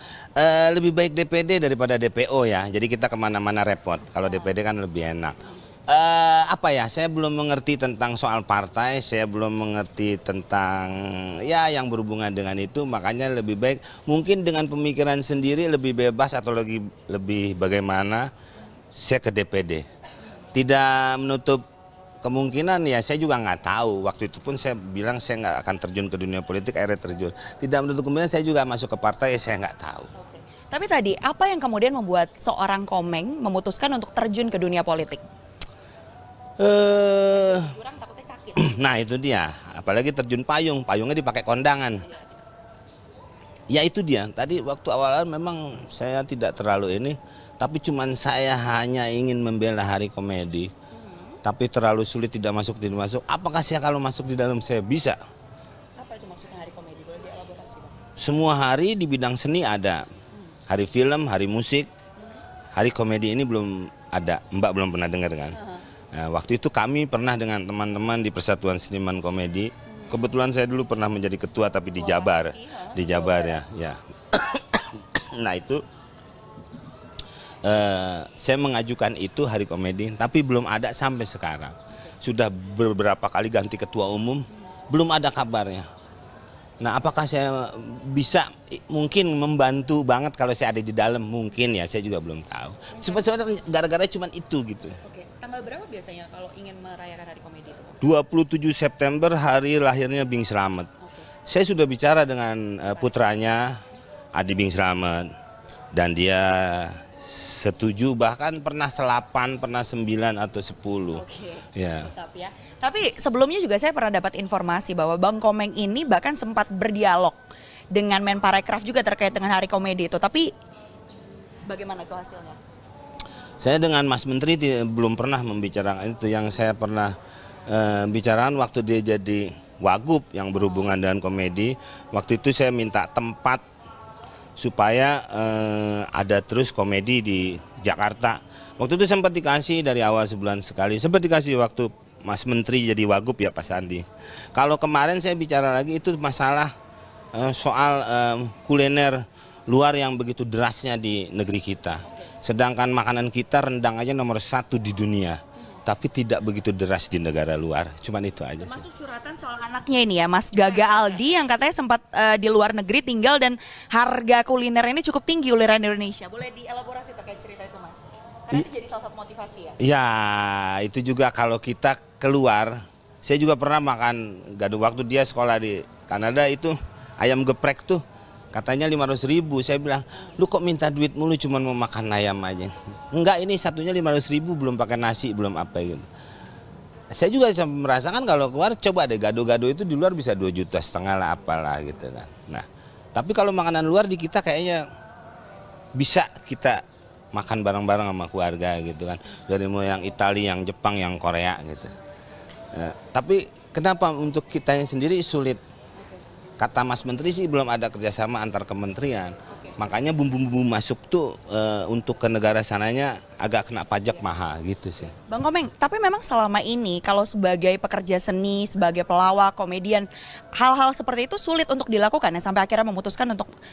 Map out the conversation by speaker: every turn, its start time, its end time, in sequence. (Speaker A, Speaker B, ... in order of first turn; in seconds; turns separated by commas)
Speaker A: 0.4-18.3, Speaker A: 18.9-19.9, Speaker A: 20.5-21.6, Speaker A: 22.2-30.1, Speaker B: 30.2-35.2, Speaker A: 36.6-37.7, Speaker B: 37.3-38.7, Speaker A: 38.6-42.0, Speaker A: 43.7-50.7, Speaker B: 50.9-51.4, Speaker A: 51.4-55.2, Speaker B: 56.0-58.0, Speaker A: 58.2-60.0, Speaker A: 60.7-61.9, Speaker A: 62.8-65.6, Speaker B: 65.5-65.8, Speaker A: 66.1-75.8, Speaker B: 69.9-70.2, Speaker B: 72.0-73.6, Speaker A: 77.7-85.9, Speaker A: 86.8-95.0, Speaker B: 92.9-93.3, Speaker B: 95.0-98.0, Speaker A: 98.0-100.9, Speaker B: 101.0-101.3, Speaker A: 101.5-103.8, Speaker B: 103.0-103.2, Speaker A: 104.3-105.3, Speaker A: 105.9-111.2, Speaker B: 111.1-117.4, Speaker A: 111.8-112.1, Speaker B: 117.9-120.5, Speaker B: 121.7-122.6, Speaker A: 123.6-127.1, Speaker A: 127.7-133.6, Speaker A: 134.6-146.7, Speaker A: 147.3-158.8, Speaker B: 152.1-152.3, Speaker B: 158.6-169.8, Speaker A: 169.8-186.1, Speaker A: 187.1-194.8, Speaker A: 195.9-196.8, Speaker A: 197.3-201.9, Speaker A: 202.7-205.6, Speaker B: 206.0-206.2, Speaker A: 206.6-215.2, Speaker B: 209.5-209.8, Speaker B: 215.3-223.5